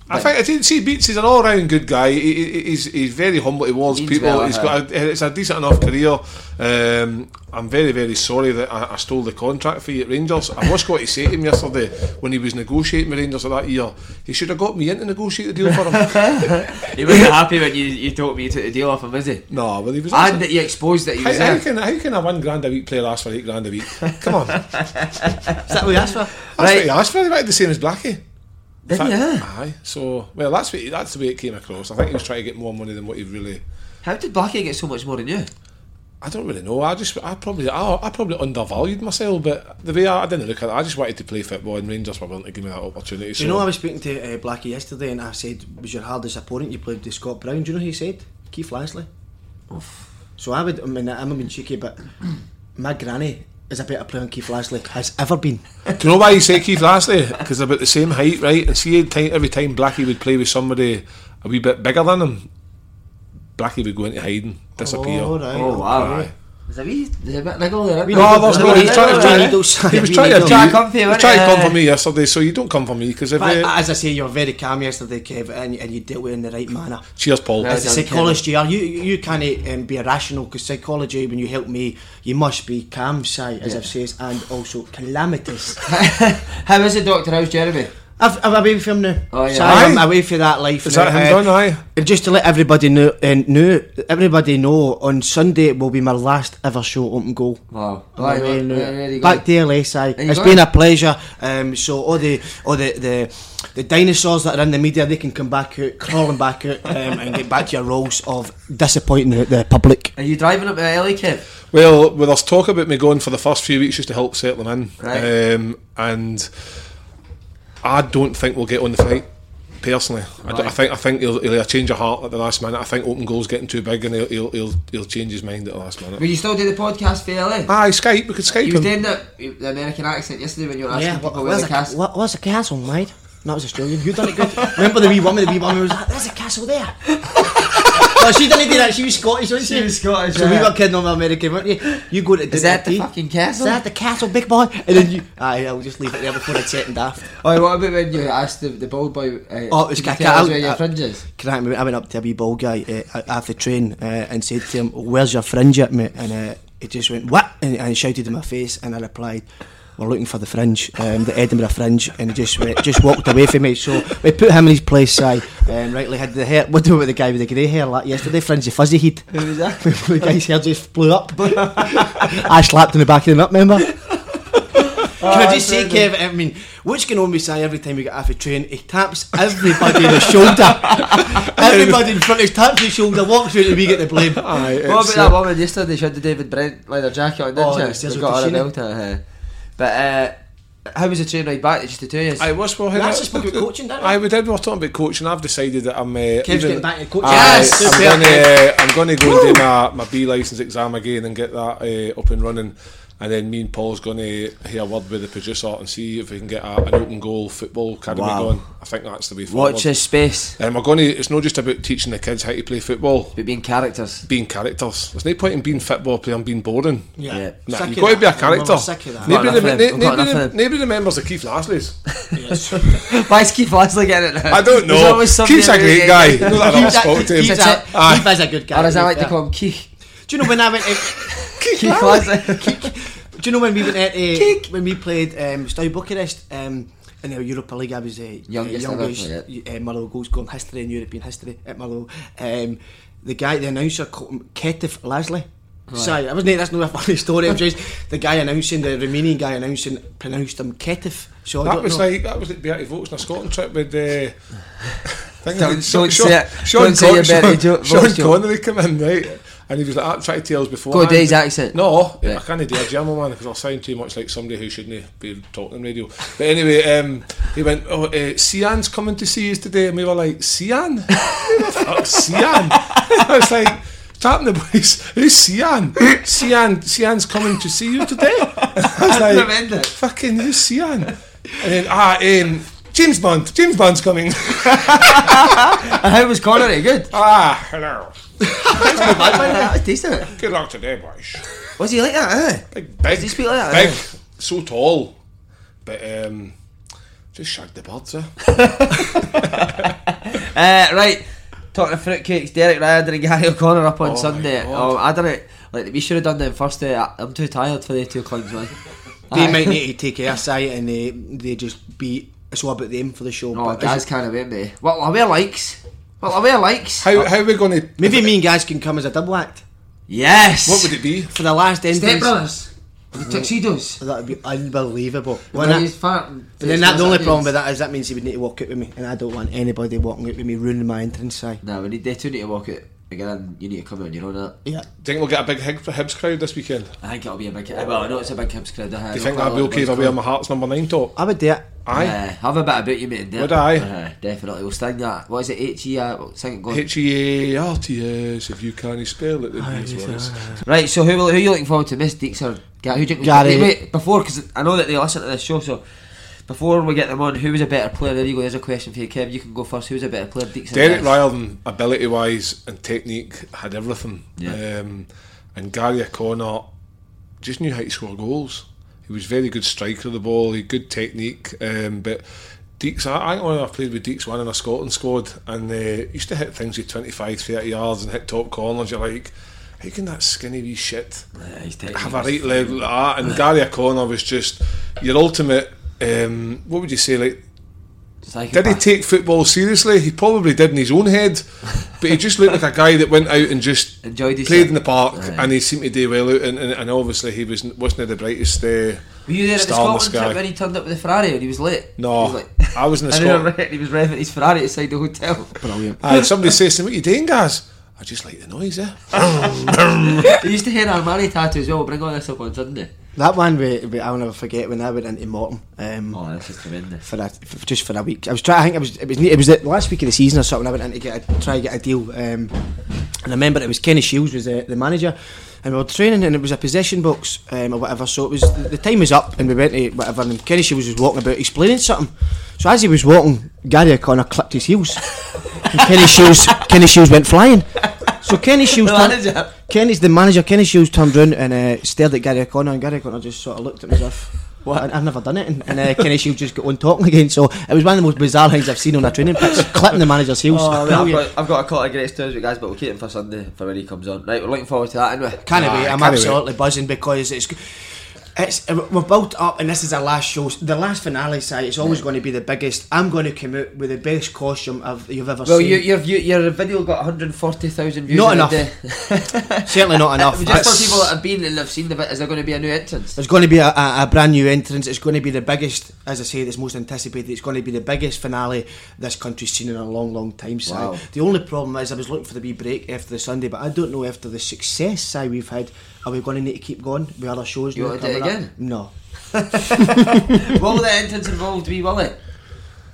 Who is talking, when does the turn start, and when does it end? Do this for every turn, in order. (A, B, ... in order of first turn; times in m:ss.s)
0:00.1-0:16.6 A
0:03.9-0:04.8 B
0:16.0-0:19.4 B
0:19.5-0:20.5 A
0:20.1-0:21.6 B
0:21.2-0:24.7 A
0:24.8-0:25.6 B
0:25.7-0:26.3 C
0:26.4-0:26.9 B
0:26.6-0:28.2 A
0:28.9-0:29.4 B
0:28.9-0:33.6 A
0:34.0-0:35.5 B
0:36.2-0:43.7 A
0:43.4-0:49.1 C
0:49.7-0:50.0 B
0:50.4-0:52.1 C
0:52.8-0:55.6 C
0:56.0-1:02.5 A
1:03.6-1:05.3 A
1:04.8-1:06.3 C
1:05.5-1:09.5 B
1:06.0-1:06.3 A
1:08.1-1:10.7 C
1:08.1-1:13.7 A
1:10.4-1:11.8 B
1:13.4-1:17.1 C
1:17.2-1:17.7 A
1:17.6-1:18.4 B
1:17.6-1:25.8 C
1:25.9-1:27.9 B
1:28.2-1:37.6 C
1:29.3-1:29.9 B
1:29.6-1:30.1 A
1:30.8-1:31.8 A
1:37.7-1:39.5 B
1:38.1-1:50.1 C
1:40.2-1:40.6 B
1:50.2-1:51.4 B
1:51.7-1:56.7 A
1:55.0-1:55.3 B
1:57.8-1:59.3 A
1:59.8-2:06.2 A
2:00.5-2:00.7 B
2:06.2-2:07.7 B
2:07.7-2:08.9 A
2:08.6-2:12.0 B
2:10.9-2:17.0 C
2:14.4-2:15.1 B
2:17.3-2:18.5 B
2:18.0-2:23.1 C
2:19.6-2:20.7 B
2:22.5-2:23.8 B
2:23.6-2:27.2 C
2:27.4-2:31.2 B
2:29.7-2:39.5 C
2:40.0-2:53.9 C
2:49.3-2:49.8 B
2:51.4-2:52.4 B
2:55.0-2:56.1 B
2:55.2-3:04.4 C
3:01.0-3:01.5 B
3:04.4-3:05.4 A
3:04.8-3:09.2 B
3:07.6-3:08.7 C
3:09.8-3:12.5 B
3:12.4-3:30.0 A
3:12.9-3:14.2 C
3:16.4-3:19.6 C
3:17.3-3:18.1 B
3:28.1-3:28.6 B
3:29.5-3:30.6 B
3:30.6-3:33.4 A
3:33.4-3:34.2 B
3:34.3-3:42.0 A
3:37.2-3:39.7 C
3:39.3-3:40.5 B
3:42.4-3:43.0 C
3:42.9-3:47.8 B
3:44.5-3:48.3 A
3:46.4-3:49.4 C
3:48.7-3:49.9 B
3:50.3-4:12.0 C
3:51.4-3:52.8 B
3:54.3-3:54.7 B
3:58.5-3:59.4 B
4:05.9-4:06.2 B
4:11.6-4:45.4 A
4:15.6-4:18.4 B
4:20.9-4:22.4 B
4:38.6-4:39.9 B
4:44.8-4:47.1 B
4:47.1-4:49.7 A
4:48.7-4:50.3 B
4:50.2-4:51.6 A
4:51.8-4:54.0 B
4:52.7-4:55.2 A
4:55.8-4:56.6 A
4:57.3-4:58.5 A
4:58.5-5:08.8 B
5:04.0-5:05.0 A
5:09.3-5:09.8 B
5:09.3-5:14.0 C
5:13.5-5:17.1 B
5:17.0-5:18.3 A
5:18.0-5:19.6 C
5:20.1-5:20.9 B
5:20.6-5:21.3 A
5:21.3-5:22.3 C
5:21.9-5:24.0 B
5:23.1-5:25.9 C
5:25.5-5:27.5 B
5:26.6-5:31.6 C
5:31.6-5:34.6 B
5:35.0-5:36.9 A
5:37.0-5:40.2 B
5:39.1-5:41.2 A
5:41.2-5:41.7 C
5:41.9-5:42.2 A
5:41.9-5:46.8 B
5:43.4-5:43.9 A
5:46.7-5:50.6 A
5:49.6-5:50.6 C
5:50.7-6:01.1 B
5:53.2-5:53.7 C
6:00.7-6:06.7 A
6:07.4-6:12.2 A
6:12.8-6:21.3 A
6:21.4-6:22.8 B
6:21.9-6:27.4 A
6:28.2-6:28.8 B
6:28.5-6:40.4 A
6:34.0-6:35.5 B
6:39.3-6:46.2 B
6:42.0-6:43.5 A
6:45.6-6:46.0 C
6:46.0-6:50.3 A
6:49.2-6:49.5 B
6:50.3-6:52.9 B
6:53.2-6:56.2 C
6:56.1-6:57.0 B
6:57.0-7:02.5 C
7:03.2-7:15.0 C
7:15.2-7:16.3 B
7:15.6-7:31.3 C
7:18.0-7:19.5 B
7:24.6-7:24.9 B
7:30.5-7:36.3 B
7:35.4-7:37.8 C
7:35.6-7:36.3 A
7:38.4-7:45.8 C
7:45.4-7:53.2 B
7:48.1-7:48.7 C
7:49.6-7:51.0 C
7:50.5-7:51.0 A
7:53.2-8:08.9 C
8:00.7-8:01.0 B
8:07.8-8:08.5 B
8:09.4-8:12.2 B